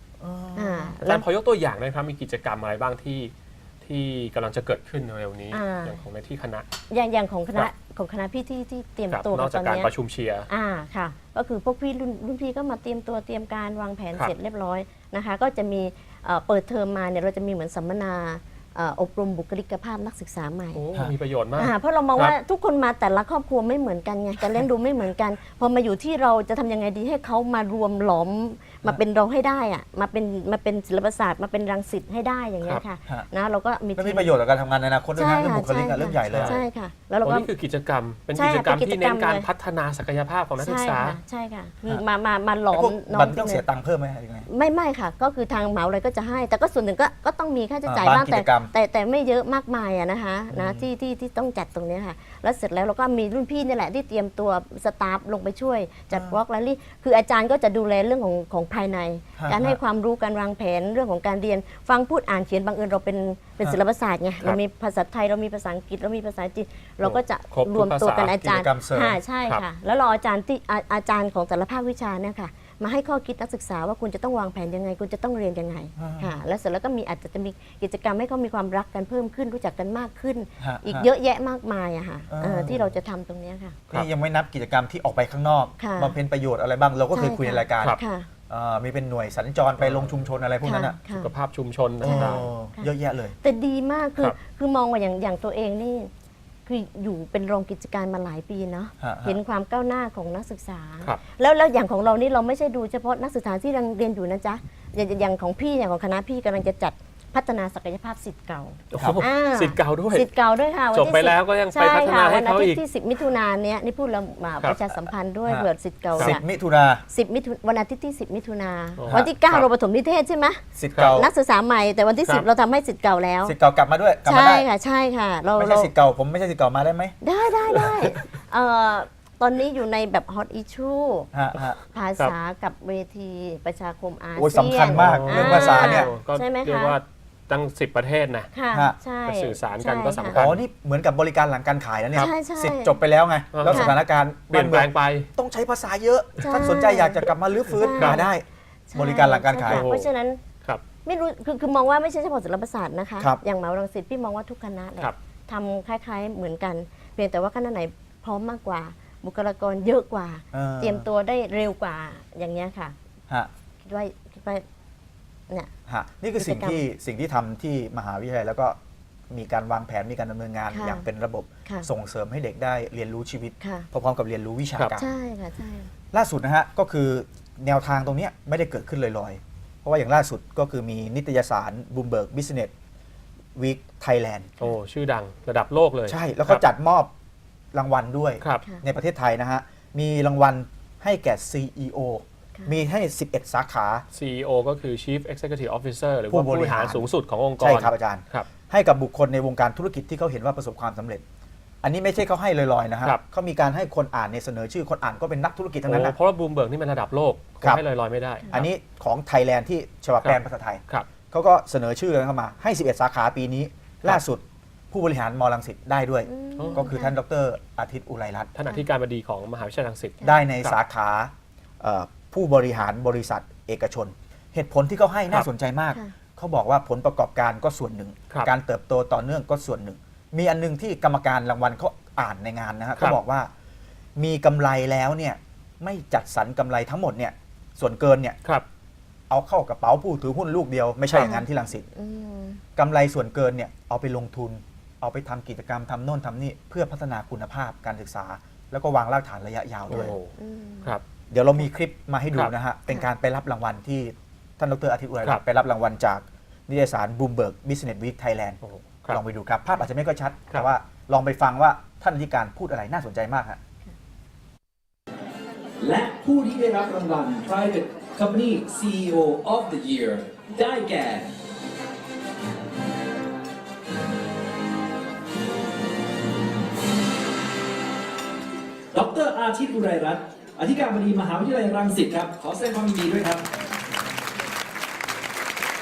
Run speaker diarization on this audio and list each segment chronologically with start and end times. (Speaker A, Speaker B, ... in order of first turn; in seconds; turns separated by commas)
Speaker A: 0.2-0.9, Speaker B: 0.6-1.2, Speaker C: 1.1-6.7, Speaker B: 5.5-6.0, Speaker B: 6.9-9.9, Speaker C: 9.1-10.5, Speaker B: 10.5-20.8, Speaker C: 20.7-22.4, Speaker B: 21.6-34.3, Speaker A: 34.0-36.6, Speaker B: 35.2-37.5, Speaker C: 36.3-36.6, Speaker C: 37.2-41.2, Speaker B: 38.3-39.5, Speaker B: 40.6-43.6, Speaker A: 42.7-44.5, Speaker B: 44.5-83.8, Speaker A: 47.8-48.7, Speaker A: 50.5-50.9, Speaker A: 56.1-56.4, Speaker A: 59.4-59.8, Speaker C: 67.0-68.5, Speaker A: 68.4-69.2, Speaker A: 76.0-76.3, Speaker A: 80.6-81.1, Speaker A: 82.3-83.0, Speaker A: 83.9-91.0, Speaker B: 85.8-86.2, Speaker B: 87.1-88.3, Speaker C: 89.8-90.3, Speaker B: 90.6-91.3, Speaker C: 91.1-92.4, Speaker A: 92.0-93.4, Speaker B: 92.0-96.1, Speaker B: 96.7-116.5, Speaker A: 99.0-99.4, Speaker C: 108.9-110.3, Speaker A: 109.0-109.2, Speaker C: 110.9-112.8, Speaker A: 116.2-117.0, Speaker B: 117.1-123.6, Speaker C: 119.0-119.7, Speaker A: 120.8-121.3, Speaker A: 123.5-124.7, Speaker B: 124.2-125.9, Speaker A: 125.6-127.2, Speaker B: 127.2-131.3, Speaker A: 131.3-131.8, Speaker C: 131.6-132.3, Speaker B: 131.9-137.0, Speaker A: 134.4-136.1, Speaker C: 134.9-138.5, Speaker B: 138.5-140.4, Speaker C: 139.3-140.6, Speaker A: 140.3-149.9, Speaker B: 142.2-143.0, Speaker C: 143.5-143.9, Speaker B: 143.7-144.0, Speaker C: 144.5-145.3, Speaker B: 146.5-148.3, Speaker C: 147.9-148.2, Speaker B: 148.9-150.4, Speaker C: 149.7-150.1, Speaker B: 151.0-162.9, Speaker A: 160.5-161.1, Speaker B: 163.8-164.7, Speaker A: 165.9-168.8, Speaker B: 166.4-166.8, Speaker A: 169.3-175.1, Speaker B: 170.7-171.1, Speaker B: 173.6-173.9, Speaker B: 174.9-175.9, Speaker A: 176.1-182.7, Speaker A: 183.6-184.7, Speaker C: 184.6-186.6, Speaker A: 186.1-187.1, Speaker A: 187.7-194.1, Speaker C: 194.1-198.5, Speaker A: 196.3-197.1, Speaker A: 197.6-201.2, Speaker A: 201.8-206.2, Speaker C: 205.9-208.7, Speaker A: 208.5-218.5, Speaker C: 210.2-211.1, Speaker B: 216.3-217.2, Speaker C: 216.6-216.9, Speaker C: 218.6-220.8, Speaker A: 220.2-233.5, Speaker A: 234.2-238.4, Speaker A: 239.3-241.9, Speaker B: 241.1-242.6, Speaker A: 242.8-250.2, Speaker C: 249.9-250.3, Speaker B: 249.9-250.9, Speaker A: 251.3-263.6, Speaker C: 258.6-259.2, Speaker D: 265.8-271.2, Speaker D: 278.9-283.4